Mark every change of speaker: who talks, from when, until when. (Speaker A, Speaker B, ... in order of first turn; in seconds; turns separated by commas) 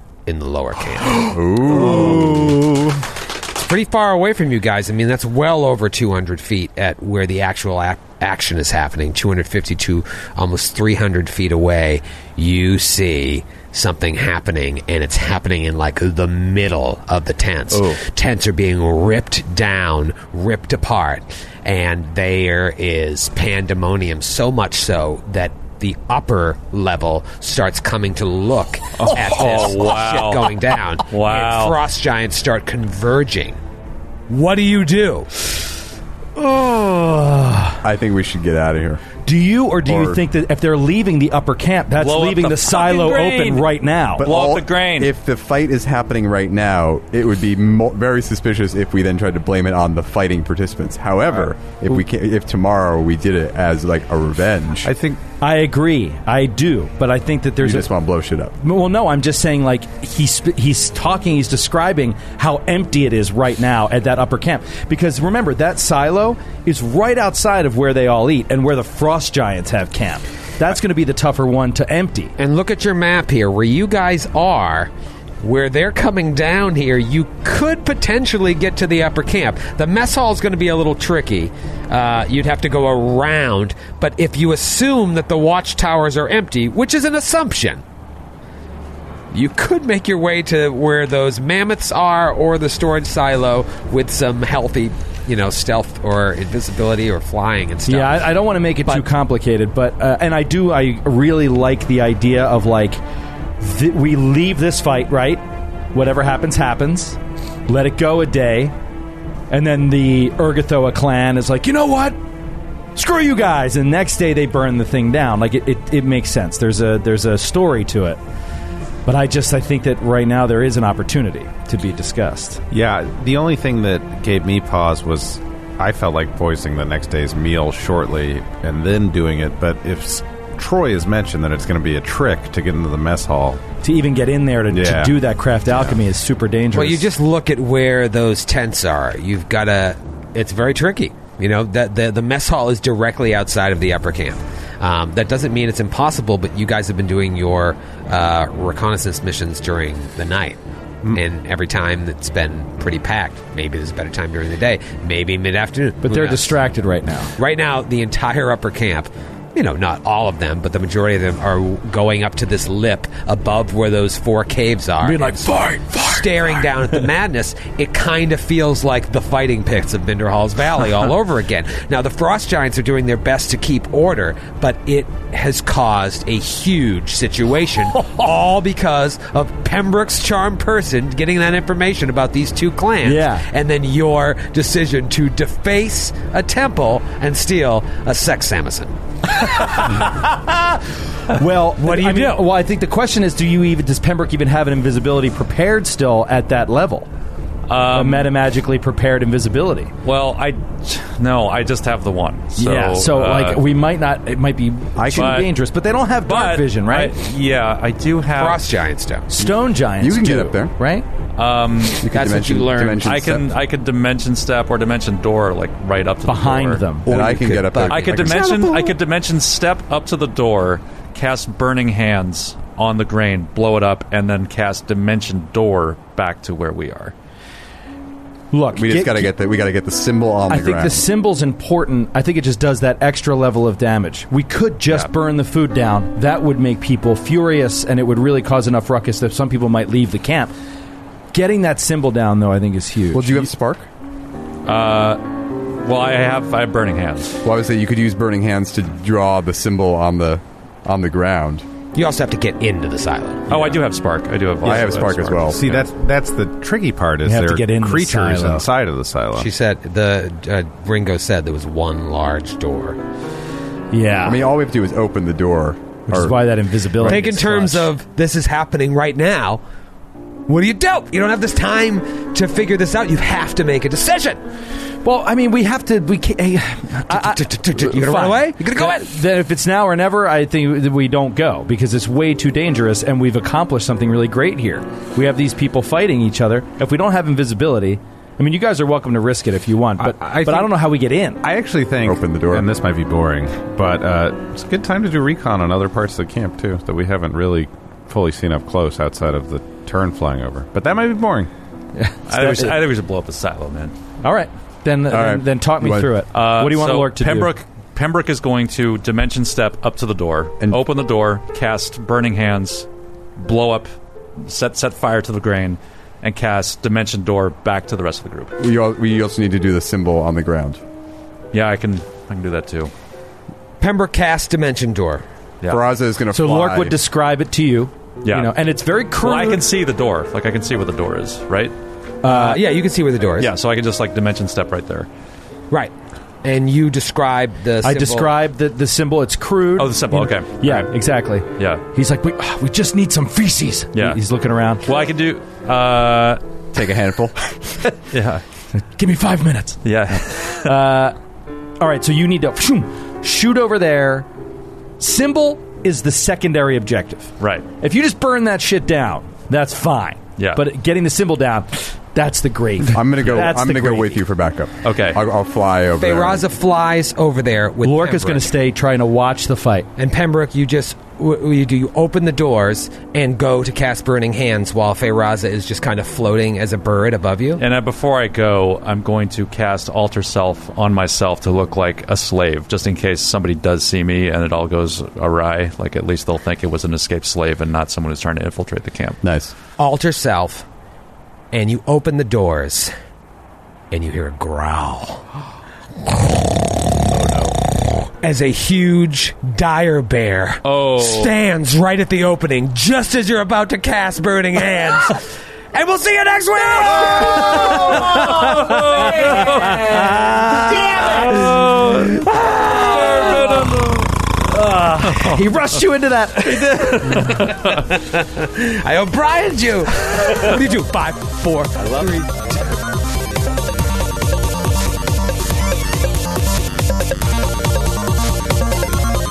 Speaker A: 0.3-1.3, Speaker B: 1.2-2.6, Speaker C: 1.9-2.8, Speaker A: 3.5-33.6, Speaker D: 29.0-30.5, Speaker D: 31.1-31.8, Speaker A: 34.3-35.5, Speaker C: 36.4-37.8, Speaker B: 37.8-39.0, Speaker C: 39.3-44.3, Speaker B: 39.9-40.2, Speaker D: 42.0-45.1, Speaker B: 44.2-54.9, Speaker E: 54.8-55.2, Speaker C: 55.4-57.9, Speaker B: 57.6-58.5, Speaker C: 58.6-72.3, Speaker A: 72.4-74.9, Speaker A: 75.4-87.8, Speaker A: 89.3-98.3, Speaker C: 97.9-103.0, Speaker C: 103.6-105.4, Speaker C: 105.9-108.7, Speaker C: 109.5-112.2, Speaker C: 112.9-118.2, Speaker C: 119.0-122.6, Speaker E: 122.7-133.6, Speaker C: 133.8-137.1, Speaker E: 134.7-135.2, Speaker A: 136.7-156.6, Speaker C: 156.0-157.3, Speaker A: 157.4-188.9, Speaker C: 165.0-166.7, Speaker C: 183.0-183.4, Speaker C: 189.4-197.1, Speaker A: 191.8-192.4, Speaker D: 197.7-198.3, Speaker C: 197.9-199.9, Speaker D: 200.0-203.6, Speaker C: 202.6-207.2, Speaker B: 204.9-205.4, Speaker D: 205.1-205.5, Speaker D: 206.3-208.6, Speaker A: 208.3-209.3, Speaker C: 209.3-211.1, Speaker B: 209.4-210.7, Speaker D: 211.4-212.1, Speaker B: 212.0-213.5, Speaker A: 212.1-213.1, Speaker D: 213.0-216.8, Speaker C: 216.3-217.1, Speaker B: 217.1-218.5, Speaker A: 217.1-218.9, Speaker D: 217.8-227.1, Speaker C: 228.5-229.3, Speaker B: 228.7-231.1, Speaker C: 230.5-240.5, Speaker C: 241.3-243.5, Speaker B: 243.1-243.9, Speaker D: 244.7-245.2, Speaker D: 245.8-247.4, Speaker B: 247.4-251.6, Speaker A: 251.9-253.8, Speaker D: 253.5-255.9, Speaker B: 254.6-255.6, Speaker E: 255.4-259.5, Speaker C: 257.2-258.7, Speaker A: 259.3-263.0, Speaker C: 263.9-264.4, Speaker B: 264.2-267.2, Speaker C: 266.1-267.9, Speaker A: 267.0-269.6, Speaker A: 270.5-274.4, Speaker C: 275.0-291.4, Speaker A: 277.1-279.1, Speaker E: 290.0-290.8, Speaker E: 291.4-301.5, Speaker B: 292.0-292.7, Speaker C: 301.9-302.8, Speaker D: 302.3-303.9, Speaker C: 304.2-307.5, Speaker B: 305.1-306.2, Speaker D: 306.3-318.5, Speaker B: 318.6-320.8, Speaker D: 321.5-322.9, Speaker A: 323.8-325.2, Speaker B: 325.7-326.9, Speaker C: 326.3-329.6, Speaker D: 328.2-328.5, Speaker D: 329.2-331.7, Speaker C: 332.2-332.7, Speaker A: 332.2-333.5, Speaker D: 333.4-335.1, Speaker A: 335.7-338.3, Speaker C: 337.8-344.8, Speaker D: 339.8-340.9, Speaker D: 341.6-341.8, Speaker D: 344.8-346.4, Speaker B: 346.7-347.5, Speaker D: 348.1-348.4, Speaker C: 348.7-351.1, Speaker D: 349.8-350.7, Speaker C: 351.8-354.3, Speaker C: 355.0-364.2, Speaker D: 357.4-357.6, Speaker B: 362.9-366.4, Speaker D: 364.8-365.2, Speaker A: 366.0-368.6, Speaker C: 367.8-369.9, Speaker A: 370.0-377.6, Speaker D: 377.6-389.2, Speaker B: 389.2-389.5, Speaker A: 389.8-390.6, Speaker A: 391.5-392.9, Speaker A: 393.9-395.3, Speaker D: 397.1-397.5, Speaker A: 398.1-414.0, Speaker D: 400.6-401.3, Speaker D: 407.1-410.1, Speaker C: 409.8-410.9, Speaker D: 411.3-411.6, Speaker D: 412.9-414.0, Speaker C: 414.5-417.3, Speaker A: 416.6-422.9